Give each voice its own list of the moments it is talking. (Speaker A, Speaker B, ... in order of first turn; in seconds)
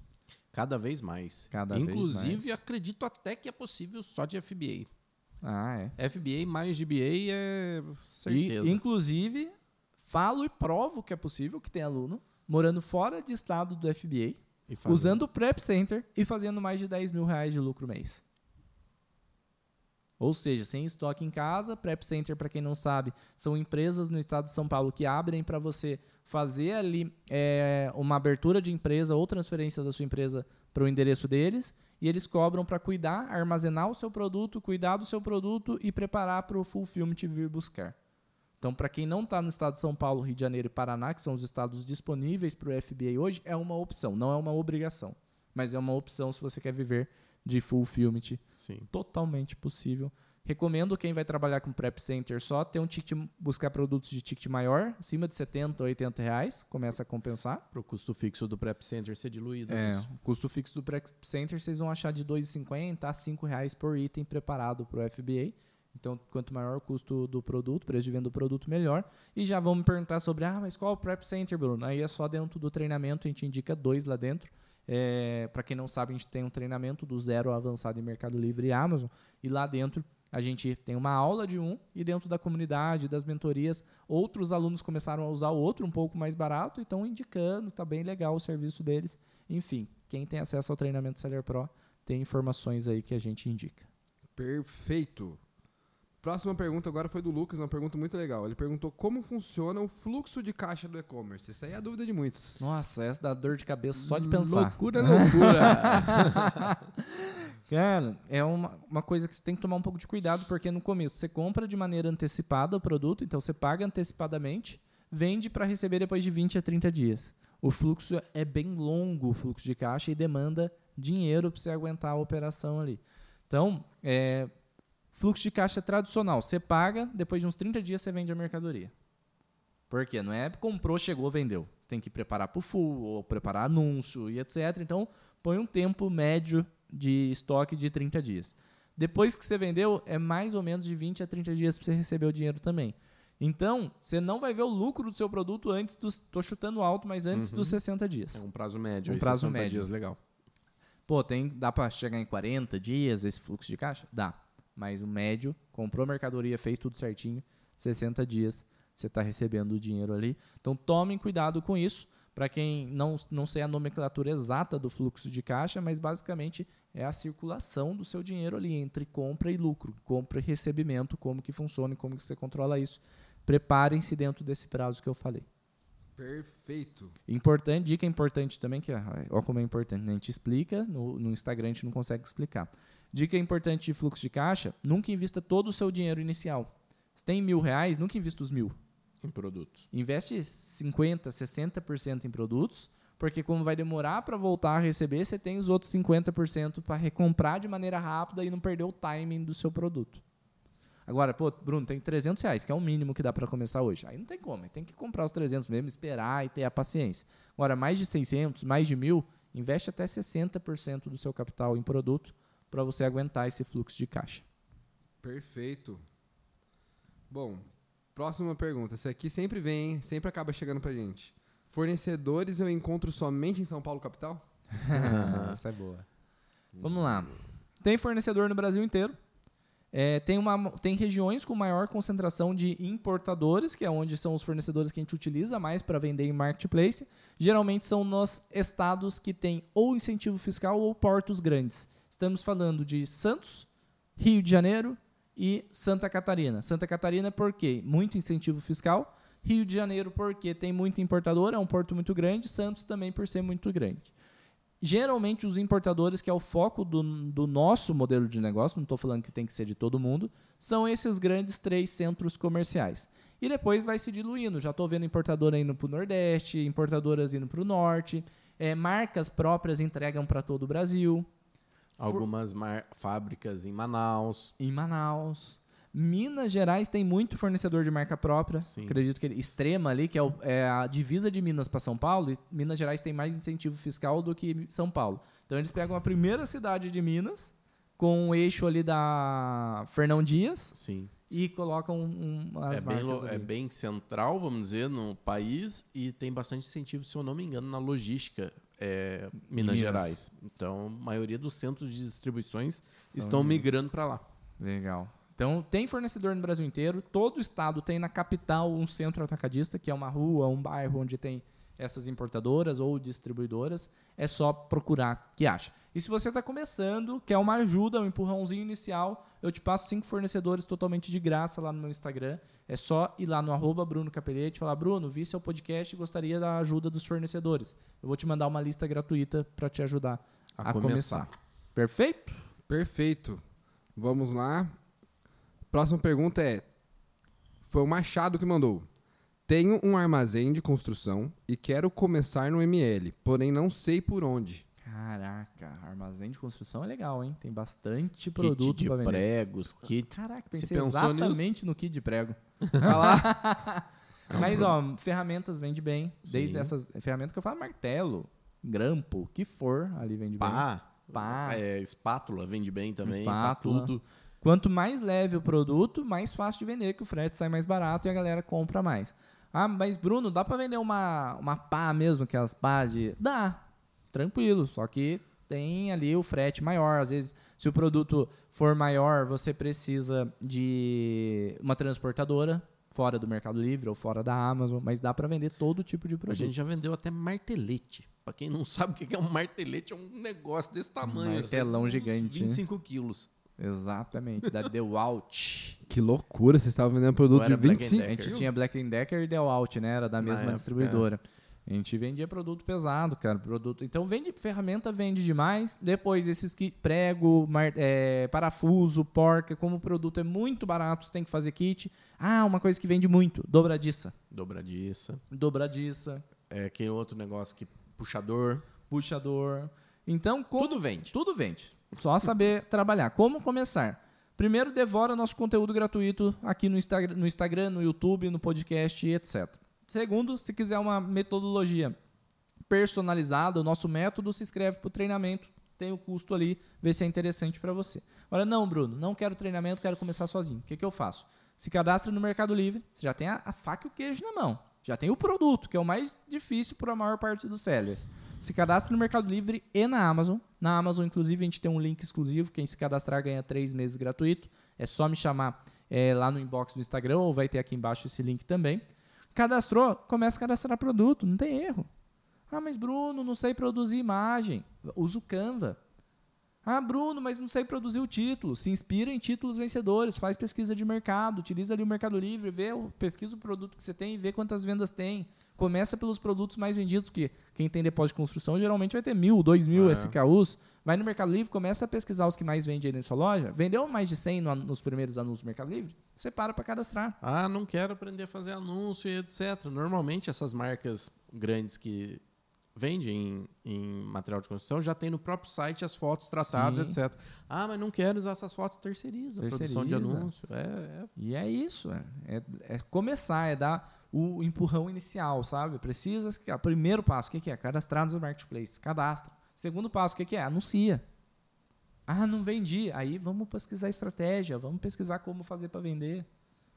Speaker A: 0.5-4.9, 6.0-8.8, 14.7-15.2, 48.6-48.9, 57.7-60.0, 104.0-106.7, 147.3-147.8, 148.3-150.2, 189.2-189.8, 224.9-225.6, 272.0-274.5, 278.6-279.0, 290.7-291.1, 292.7-304.2, 330.6-331.3, 348.4-351.5, 352.6-352.9, 354.3-354.7, 356.3-356.7, 360.4-364.0, 386.3-393.3, 397.3-398.5, 400.2-401.1, 414.3-415.2, 416.5-418.6, 420.6-421.1, 479.7-480.1, 487.2-492.2, 492.8-501.1
Speaker B: 1.5-2.6, 5.4-5.9, 8.3-18.2, 20.2-38.0, 38.6-57.6, 59.7-93.9, 102.6-124.5, 125.1-128.9, 129.9-148.4, 149.1-149.9, 151.1-175.5, 177.3-188.8, 189.9-200.2, 201.1-214.4, 224.7-226.1, 226.8-229.2, 229.9-254.1, 254.8-271.3, 274.6-290.7, 291.3-293.5, 299.6-300.2, 303.1-303.7, 304.6-332.4, 344.8-349.2, 349.9-361.6, 363.0-386.5, 391.1-392.6, 393.6-395.8, 398.2-414.1, 415.3-416.2, 418.9-432.0, 432.7-458.8, 459.4-461.9, 462.5-465.8, 466.6-487.2, 496.4-497.0, 499.4-500.3, 501.2-511.0, 512.1-516.3
Speaker C: 94.4-95.4, 96.2-102.6, 176.2-177.1, 215.2-216.0, 217.3-224.4, 226.8-227.2, 332.7-333.4, 334.0-334.7, 335.7-336.7, 337.6-338.9, 339.5-344.6, 352.8-353.2, 395.9-398.4